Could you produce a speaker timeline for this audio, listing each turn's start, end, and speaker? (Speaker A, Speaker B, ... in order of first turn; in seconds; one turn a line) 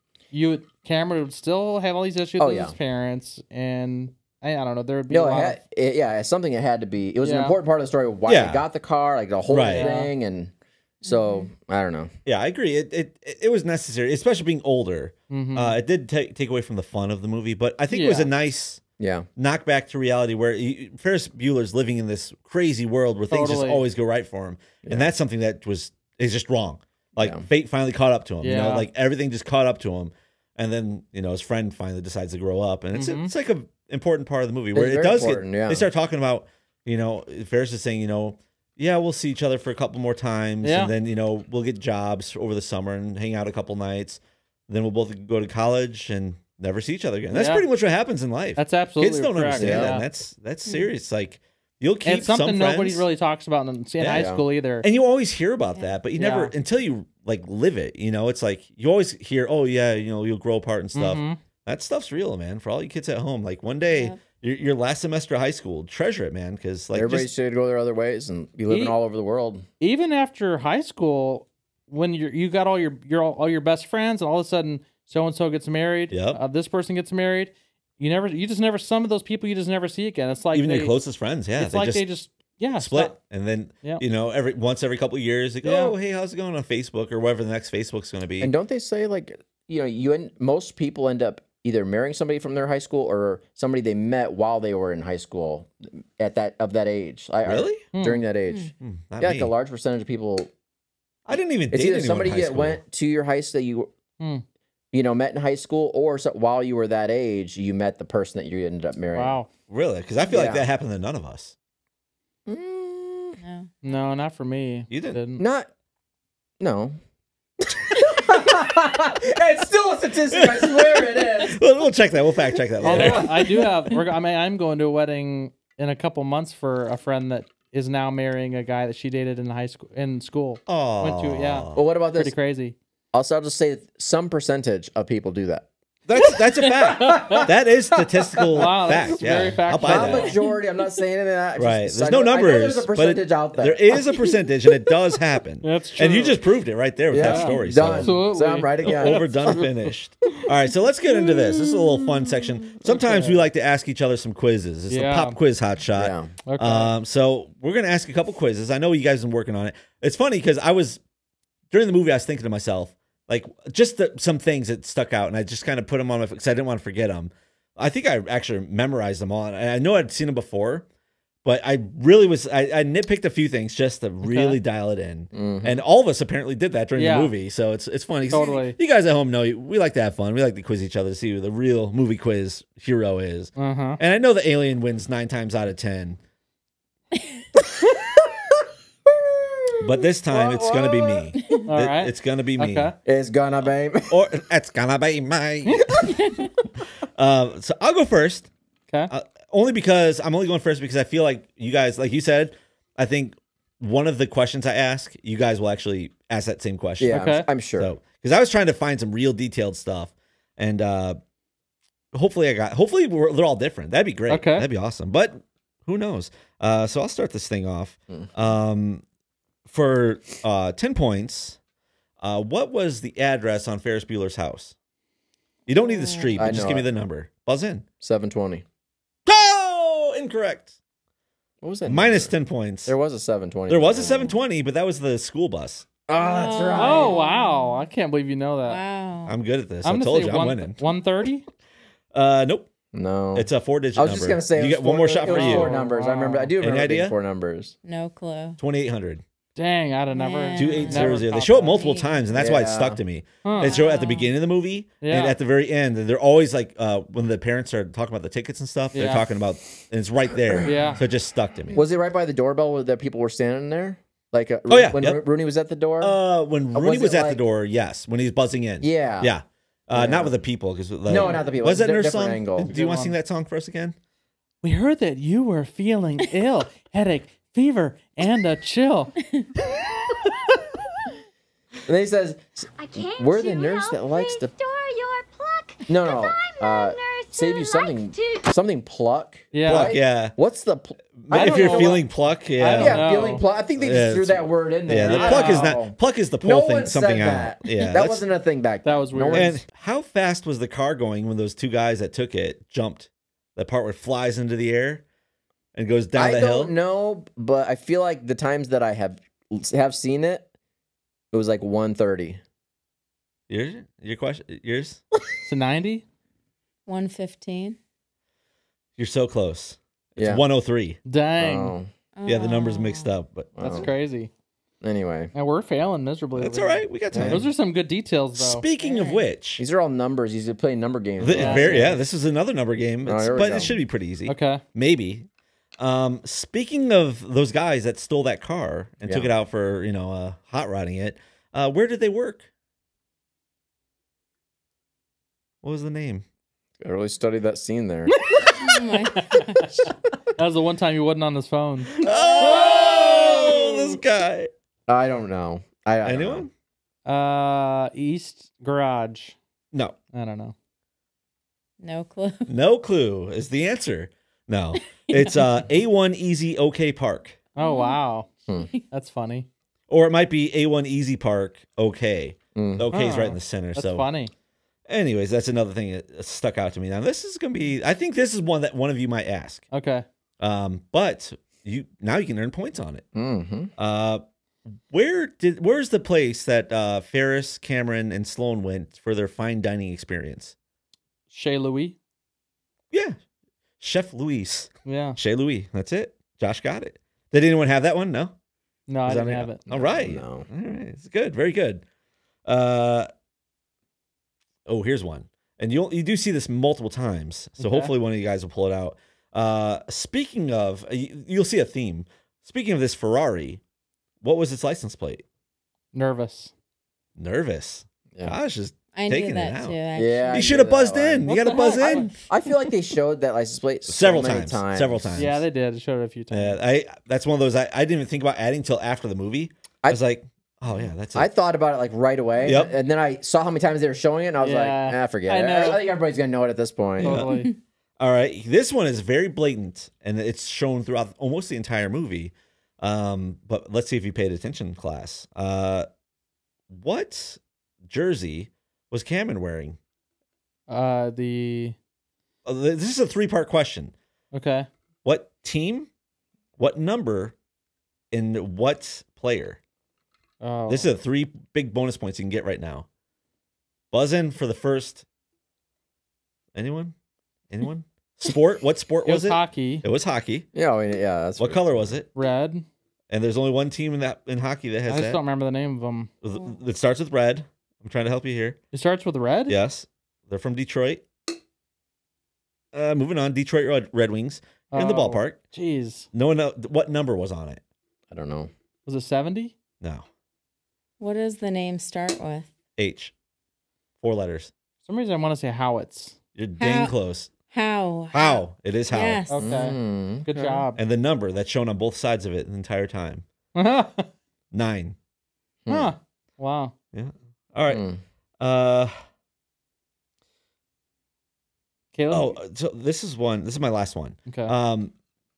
Speaker A: 0.3-5.6
Speaker B: 2.4-2.8
Speaker B: 5.1-12.1
Speaker A: 7.2-7.5
Speaker C: 8.3-8.7
Speaker C: 9.5-9.9
Speaker A: 9.7-10.1
Speaker D: 11.1-11.5
Speaker C: 12.3-18.8
Speaker A: 15.3-15.8
Speaker A: 17.9-18.3
Speaker B: 19.0-19.3
Speaker C: 19.4-53.0
Speaker A: 23.3-23.8
Speaker B: 24.8-25.1
Speaker B: 27.2-27.4
Speaker A: 28.4-28.9
Speaker A: 33.0-33.3
Speaker B: 34.7-35.9
Speaker A: 40.6-40.9
Speaker A: 47.3-47.6
Speaker A: 48.6-50.0
Speaker B: 49.5-50.0
Speaker A: 52.0-54.8
Speaker C: 54.0-67.3
Speaker B: 54.1-54.4
Speaker A: 56.2-56.5
Speaker A: 60.9-61.4
Speaker D: 63.9-64.2
Speaker B: 66.9-69.7
Speaker A: 68.7-69.0
Speaker A: 69.8-80.9
Speaker C: 76.1-76.4
Speaker C: 80.5-82.0
Speaker A: 81.6-83.2
Speaker C: 82.8-88.5
Speaker A: 85.6-85.9
Speaker B: 88.4-100.5
Speaker C: 97.5-97.9
Speaker A: 97.9-98.2
Speaker C: 98.8-99.5
Speaker C: 101.3-102.8
Speaker B: 101.7-103.9
Speaker A: 104.2-104.5
Speaker B: 104.9-109.4
Speaker A: 109.2-109.5
Speaker C: 109.7-111.5
Speaker B: 110.3-110.6
Speaker B: 112.5-113.4
Speaker D: 113.4-113.7
Speaker A: 113.8-115.4
Speaker C: 114.9-115.2
Speaker B: 115.4-115.7
Speaker B: 116.6-117.0
Speaker B: 117.6-121.6
Speaker C: 120.3-123.3
Speaker B: 122.8-123.5
Speaker A: 122.8-132.8
Speaker C: 130.7-131.8
Speaker B: 131.8-132.3
Speaker B: 133.1-135.7
Speaker C: 136.1-140.3
Speaker A: 136.9-137.5
Speaker B: 137.1-138.9
Speaker A: 138.6-140.3
Speaker B: 139.8-144.3
Speaker C: 141.6-148.2
Speaker A: 145.6-146.4
Speaker B: 147.1-149.5
Speaker A: 147.2-150.4
Speaker C: 148.8-161.0
Speaker A: 151.3-152.0
Speaker A: 152.8-153.4
Speaker A: 154.9-155.4
Speaker B: 156.0-156.3
Speaker A: 156.5-156.9
Speaker C: 161.7-170.9
Speaker C: 171.4-186.2
Speaker A: 174.2-174.6
Speaker B: 175.3-175.8
Speaker A: 176.9-177.3
Speaker A: 178.3-178.8
Speaker A: 183.6-184.0
Speaker B: 189.1-191.3
Speaker C: 189.8-192.9
Speaker A: 191.7-192.9
Speaker B: 193.1-194.2
Speaker C: 194.1-196.2
Speaker D: 196.1-196.5
Speaker C: 197.2-198.5
Speaker C: 199.1-211.2
Speaker B: 207.0-207.9
Speaker A: 207.1-207.5
Speaker C: 212.1-219.0
Speaker A: 214.3-214.7
Speaker C: 219.7-221.6
Speaker C: 222.2-224.8
Speaker C: 225.7-227.8
Speaker D: 225.7-226.5
Speaker B: 226.4-226.9
Speaker B: 228.0-228.7
Speaker C: 229.3-230.7
Speaker B: 231.6-232.3
Speaker C: 231.9-232.9
Speaker B: 232.9-234.4
Speaker C: 233.7-235.9
Speaker B: 236.1-237.2
Speaker D: 236.2-237.9
Speaker A: 236.8-238.8
Speaker D: 238.7-239.4
Speaker C: 239.3-240.8
Speaker A: 239.8-241.5
Speaker C: 242.1-242.7
Speaker B: 242.9-247.8
Speaker C: 243.3-245.7
Speaker A: 245.3-246.5
Speaker C: 246.6-247.2
Speaker D: 247.8-248.6
Speaker C: 248.6-249.2
Speaker A: 249.6-251.8
Speaker D: 250.1-252.1
Speaker C: 250.6-261.8
Speaker B: 252.3-253.0
Speaker A: 253.4-253.8
Speaker D: 253.6-254.3
Speaker A: 255.0-255.4
Speaker A: 258.9-259.3
Speaker B: 260.4-261.0
Speaker A: 260.7-261.0
Speaker B: 261.7-266.2
Speaker C: 264.7-265.2
Speaker C: 266.0-273.9
Speaker B: 266.7-267.4
Speaker B: 268.8-269.3
Speaker B: 269.9-270.4
Speaker B: 271.1-272.7
Speaker A: 272.7-273.1
Speaker A: 274.6-279.1
Speaker B: 281.9-284.5
Speaker E: 282.8-288.4
Speaker B: 285.9-292.1
Speaker A: 289.5-289.9
Speaker C: 289.7-290.4
Speaker C: 291.2-293.2
Speaker A: 291.3-292.0
Speaker A: 292.6-293.4
Speaker B: 292.8-299.6
Speaker C: 293.8-298.2
Speaker A: 294.9-295.7
Speaker A: 298.8-299.5
Speaker C: 299.3-305.0
Speaker C: 305.8-306.7
Speaker B: 306.1-310.5
Speaker B: 311.3-312.4
Speaker C: 313.5-315.0
Speaker A: 315.4-316.1
Speaker D: 316.9-317.8
Speaker C: 319.0-321.0
Speaker B: 320.2-320.4
Speaker A: 321.1-321.8
Speaker B: 321.4-321.9
Speaker D: 322.2-323.1
Speaker C: 322.3-323.6
Speaker B: 323.6-323.9
Speaker A: 323.6-324.3
Speaker B: 324.8-325.3
Speaker A: 325.3-328.6
Speaker C: 326.4-327.5
Speaker B: 327.1-327.4
Speaker C: 328.4-329.6
Speaker D: 328.8-329.2
Speaker B: 329.6-331.8
Speaker C: 331.2-335.3
Speaker A: 331.3-332.0
Speaker B: 333.0-333.8
Speaker A: 334.3-334.6
Speaker C: 335.8-342.5
Speaker C: 345.6-346.2
Speaker B: 346.8-348.1
Speaker A: 348.3-348.6
Speaker D: 348.5-349.9
Speaker A: 350.4-353.8
Speaker C: 352.0-354.5
Speaker D: 352.0-353.5
Speaker B: 352.8-353.2
Speaker B: 354.9-356.5
Speaker C: 356.0-356.5
Speaker A: 357.1-359.4
Speaker A: 360.1-360.6
Speaker D: 361.8-362.5
Speaker C: 362.5-367.4
Speaker D: 365.0-365.7
Speaker A: 367.6-368.3
Speaker D: 367.6-368.0
Speaker A: 368.9-369.5
Speaker C: 369.9-374.1
Speaker B: 372.6-372.9
Speaker A: 372.9-374.3
Speaker C: 374.9-379.7
Speaker A: 379.7-380.1
Speaker C: 380.4-383.1
Speaker B: 383.1-383.7
Speaker C: 383.8-384.2
Speaker C: 384.9-390.6
Speaker A: 391.3-392.0
Speaker C: 393.8-398.3
Speaker A: 394.9-395.2
Speaker A: 398.9-399.6
Speaker C: 399.1-401.8
Speaker B: 399.7-400.5
Speaker C: 402.5-403.1
Speaker C: 404.7-413.6
Speaker A: 407.6-407.9
Speaker C: 414.2-415.2
Speaker A: 415.9-416.5
Speaker C: 417.2-419.8
Speaker D: 418.9-420.6
Speaker B: 419.9-421.3
Speaker C: 420.3-422.2
Speaker A: 421.3-422.1
Speaker B: 422.3-425.1
Speaker C: 423.9-425.4
Speaker A: 425.2-426.6
Speaker C: 426.3-431.3
Speaker B: 431.1-437.3
Speaker C: 432.4-432.7
Speaker A: 434.4-435.9
Speaker A: 437.0-437.5
Speaker C: 438.0-445.9
Speaker C: 446.7-449.8
Speaker A: 450.7-451.8
Speaker C: 452.4-453.9
Speaker A: 454.3-454.7
Speaker C: 455.1-455.9
Speaker C: 456.6-457.4
Speaker C: 458.1-459.6
Speaker A: 460.4-460.9
Speaker C: 460.7-462.9
Speaker C: 463.9-465.1
Speaker C: 466.6-466.9
Speaker C: 467.5-470.5
Speaker A: 469.1-469.9
Speaker B: 470.5-471.9
Speaker C: 471.4-472.1
Speaker A: 472.1-472.6
Speaker C: 473.1-475.2
Speaker A: 474.9-476.1
Speaker C: 476.2-478.6
Speaker A: 478.7-479.6
Speaker C: 479.5-481.0
Speaker C: 482.7-485.4
Speaker A: 484.7-486.1
Speaker C: 486.1-487.6
Speaker B: 488.1-488.5
Speaker A: 488.9-489.6
Speaker C: 489.8-490.1
Speaker D: 491.0-492.5
Speaker C: 492.8-493.1
Speaker C: 494.0-494.5
Speaker A: 494.9-496.2
Speaker C: 496.4-497.3
Speaker D: 496.6-496.9
Speaker D: 497.5-499.6
Speaker C: 498.1-499.2
Speaker A: 499.3-500.8
Speaker B: 499.4-500.7
Speaker C: 500.8-503.2
Speaker A: 503.6-504.1
Speaker C: 504.5-505.0
Speaker B: 505.6-505.9
Speaker A: 505.7-506.7
Speaker C: 506.9-507.8
Speaker B: 507.7-508.0
Speaker C: 508.4-508.9
Speaker A: 511.9-512.4
Speaker C: 512.1-514.9